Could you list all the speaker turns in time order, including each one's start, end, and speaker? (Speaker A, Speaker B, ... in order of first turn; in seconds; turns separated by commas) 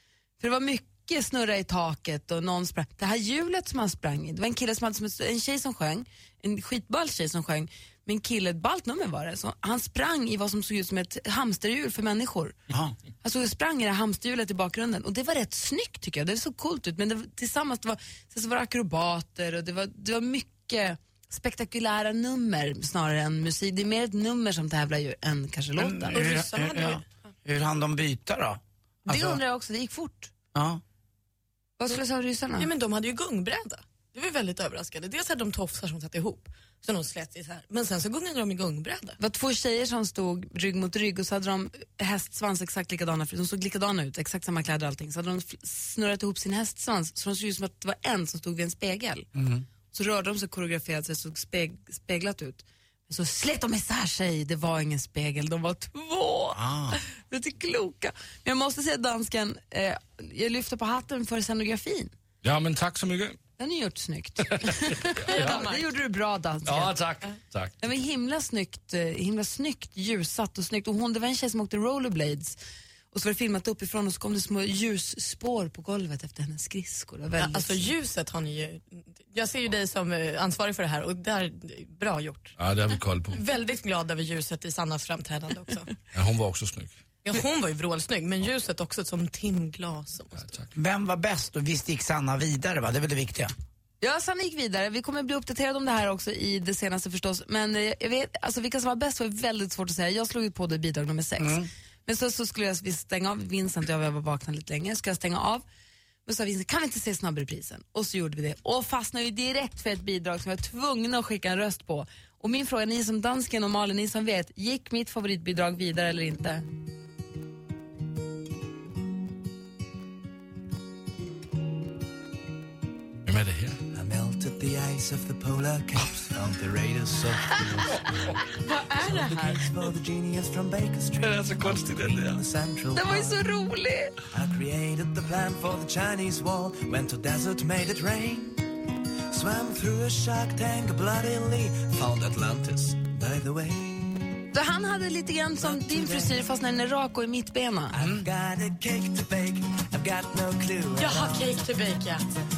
Speaker A: 0.4-12.6, Speaker A: 13.2-26.2, Speaker B: 25.8-29.4, Speaker C: 26.1-27.0, Speaker A: 29.1-30.3, Speaker B: 30.5-30.8, Speaker A: 31.8-32.7, Speaker C: 32.6-39.2, Speaker A: 39.2-49.3, Speaker B: 49.3-49.6, Speaker A: 49.9-62.1, Speaker B: 56.5-57.0, Speaker D: 62.4-63.4, Speaker A: 63.6-67.0, Speaker D: 64.5-64.8, Speaker C: 65.2-65.9, Speaker D: 65.3-65.6, Speaker D: 66.7-67.8, Speaker A: 67.8-72.6, Speaker A: 73.1-77.9, Speaker C: 77.4-82.5, Speaker D: 82.6-83.4, Speaker C: 83.3-85.9, Speaker D: 86.1-87.0, Speaker C: 87.2-90.6, Speaker D: 90.4-90.7, Speaker B: 90.7-93.5, Speaker A: 94.0-105.6, Speaker B: 101.4-101.7, Speaker A: 106.2-116.6, Speaker D: 123.2-123.8, Speaker E: 123.9-133.4, Speaker C: 128.6-129.6, Speaker D: 131.2-132.4, Speaker A: 132.9-134.2, Speaker E: 134.3-138.6, Speaker E: 139.3-144.3, Speaker A: 144.5-147.9, Speaker E: 145.6-146.4, Speaker E: 147.9-151.6, Speaker B: 148.0-148.3, Speaker C: 151.0-152.3